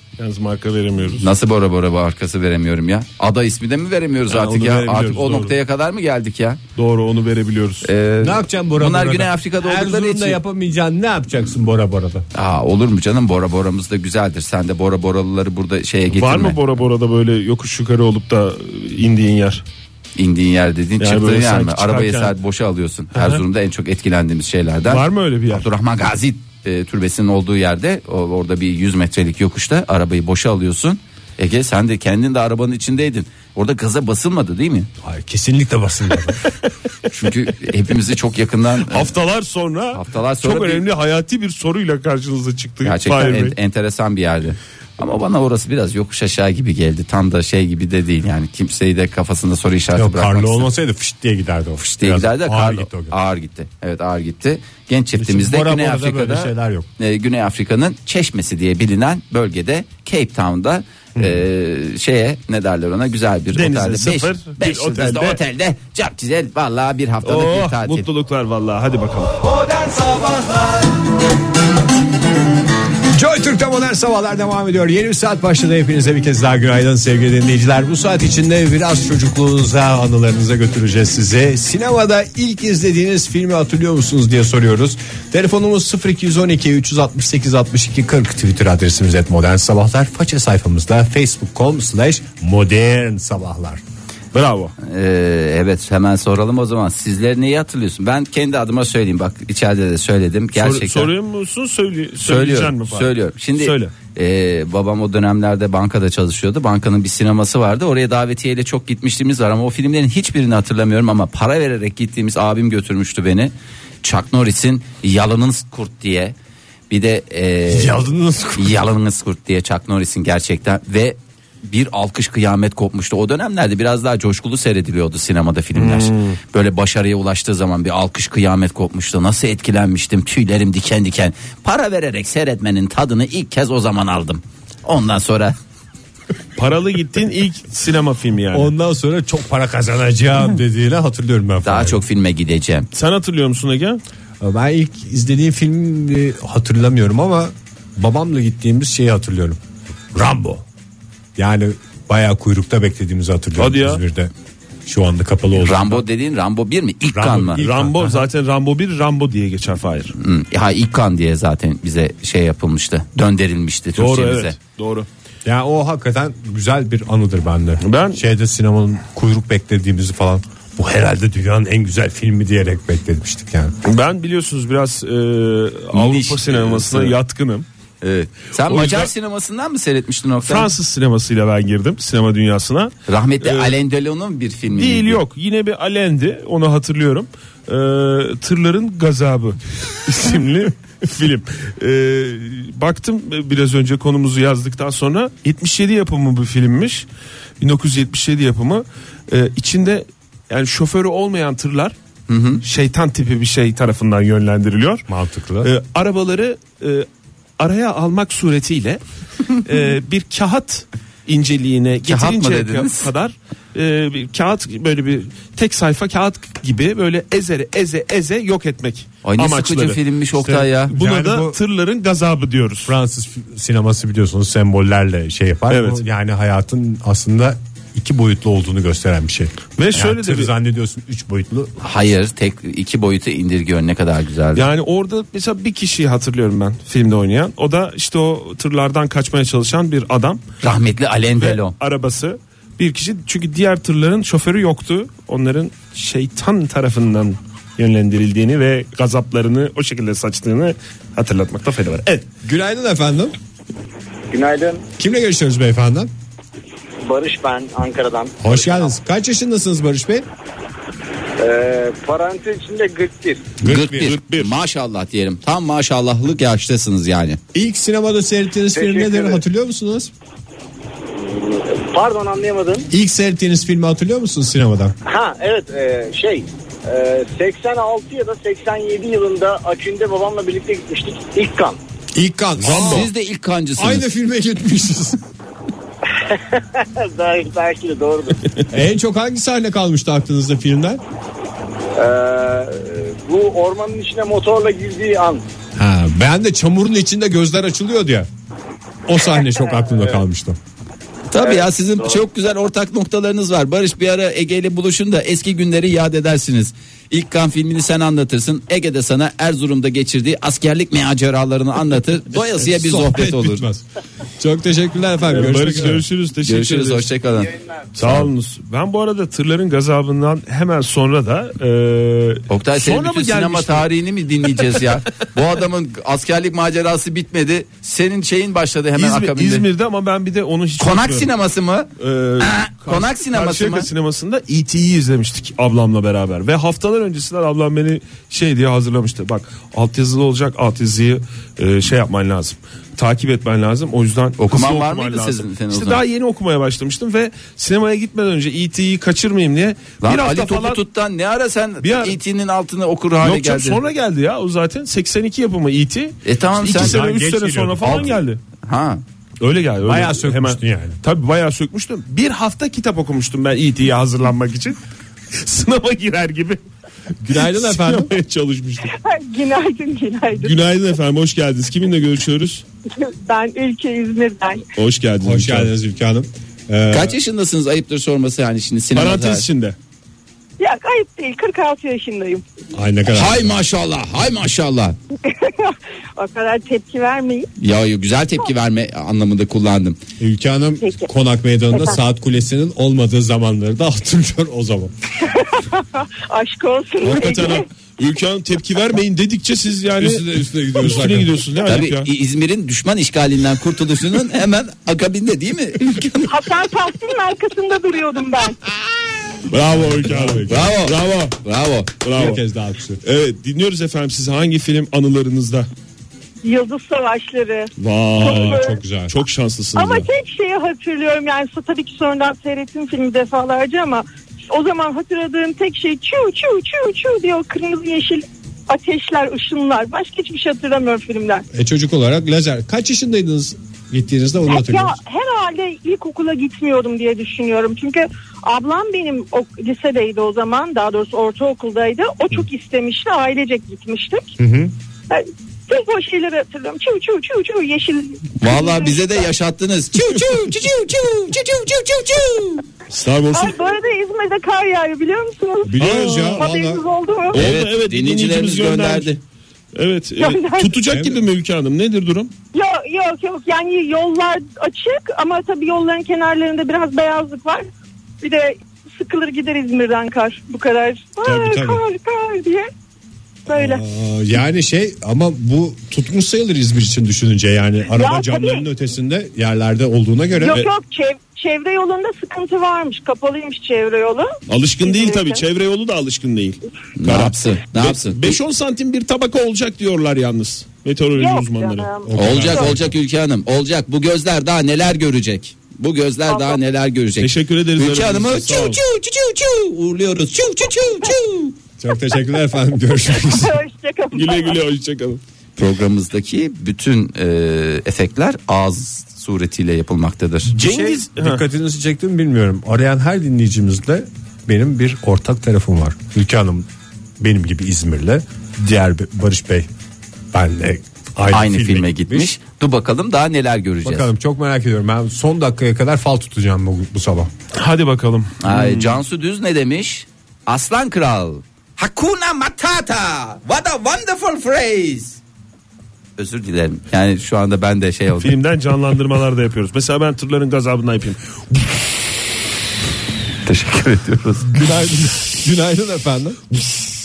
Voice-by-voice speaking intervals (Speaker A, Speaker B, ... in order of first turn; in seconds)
Speaker A: 0.2-1.3, 4.3-5.5, 6.8-7.9, 16.1-19.6, 21.0-22.3, 23.1-23.4, 24.9-25.6, 38.8-43.6, 63.5-65.4, 67.2-69.4, 94.3-94.7, 100.5-103.9, 125.7-126.4, 136.6-138.7, 142.9-144.0, 153.6-154.0, 157.6-160.1, 163.9-165.1, 167.8-168.2, 173.8-177.7, 178.6-179.1, 180.4-183.7, 184.7-197.1, 197.6-201.9, 202.6-205.0, 205.6-207.1, 207.6-209.0, 209.6-220.0, 220.9-222.9, 225.7-226.0, 229.8-230.5, 234.5-240.4, 241.3-252.2, 263.8-264.5, 282.6-283.1, 315.3-317.1, 317.9-323.9, 328.9-331.3, 332.0-350.8, 351.8-352.1, 353.2-358.4, 359.4-364.8, 365.4-366.6, 367.3-368.9, 370.4-372.6, 374.8-375.7, 378.9-379.8, 397.0-402.1, 409.5-411.4, 412.0-412.4, 413.0-415.7, 417.8-420.1, 452.9-453.6, 455.8-456.4, 457.3-459.2, 459.7-462.3, 484.5-491.9, 497.2-498.8, 504.1-505.2, 510.5-511.4, 527.5-529.0, 538.2-541.7
Speaker B: 1.2-6.6, 7.8-10.4, 12.3-16.6, 20.1-34.9, 37.1-39.1, 39.9-40.8, 42.8-50.6, 51.8-68.1, 94.8-101.1, 102.2-116.3, 116.9-118.0, 118.6-135.6, 141.6-142.9, 155.6-157.6, 160.2-164.5, 175.9-177.2, 178.0-180.7, 183.1-185.2, 202.3-202.6, 212.0-213.1, 219.2-220.9, 231.8-234.7, 240.6-241.7, 263.6-267.4, 282.7-284.0, 301.3-313.6, 316.4-318.3, 322.5-329.6, 330.8-333.9, 344.4-346.0, 350.0-353.8, 356.2-357.0, 357.8-359.0, 376.9-379.5, 383.1-384.9, 387.6-390.0, 401.6-406.4, 410.5-411.9, 448.4-451.4, 457.3-459.2, 487.0-488.4, 492.1-501.6, 505.6-510.5, 521.3-524.1, 528.4-535.2, 536.2-538.4, 543.4-544.5
Speaker C: 8.2-12.3, 35.0-36.5, 49.9-53.1, 55.1-56.9, 73.1-93.8, 117.7-118.9, 138.5-142.0, 144.4-149.6, 150.1-150.6, 151.3-154.3, 154.8-156.0, 157.1-158.3, 165.4-173.7, 205.1-205.7, 220.3-221.6, 222.8-231.8, 252.4-253.3, 255.0-256.1, 258.4-260.3, 263.6-264.1, 267.5-270.1, 272.9-274.9, 282.1-283.1, 283.8-285.2, 288.7-291.0, 295.8-298.3, 299.1-300.6, 312.3-313.8, 314.4-316.0, 356.6-358.1, 359.8-361.0, 367.2-368.1, 375.2-377.2, 382.7-383.6, 390.2-394.9, 400.0-401.3, 409.7-410.8, 412.1-413.0, 418.2-419.1, 431.5-435.0, 444.4-444.7, 455.6-456.8, 460.9-461.2, 471.2-471.8, 473.5-480.6, 492.0-492.9, 501.8-503.5, 510.5-516.7, 517.2-519.7, 520.3-522.3, 523.8-527.3, 544.5-546.4
Speaker D: 254.3-254.8, 257.1-258.9, 261.4-263.6, 268.7-269.4, 271.2-272.9, 275.1-281.8, 286.3-288.4, 291.9-295.4, 301.4-302.2
Speaker E: 368.9-370.5, 373.0-374.6, 380.6-382.4, 385.2-387.5, 390.8-391.1, 395.3-397.6, 406.3-408.6, 416.4-418.8, 419.8-431.4, 434.5-444.3, 445.1-449.2, 451.3-452.6, 453.3-457.4, 460.2-460.8, 462.5-467.6, 468.2-472.7, 473.5-473.8, 477.9-478.6, 480.4-484.3, 484.8-485.4, 491.1-492.7, 496.3-496.6, 503.1-504.6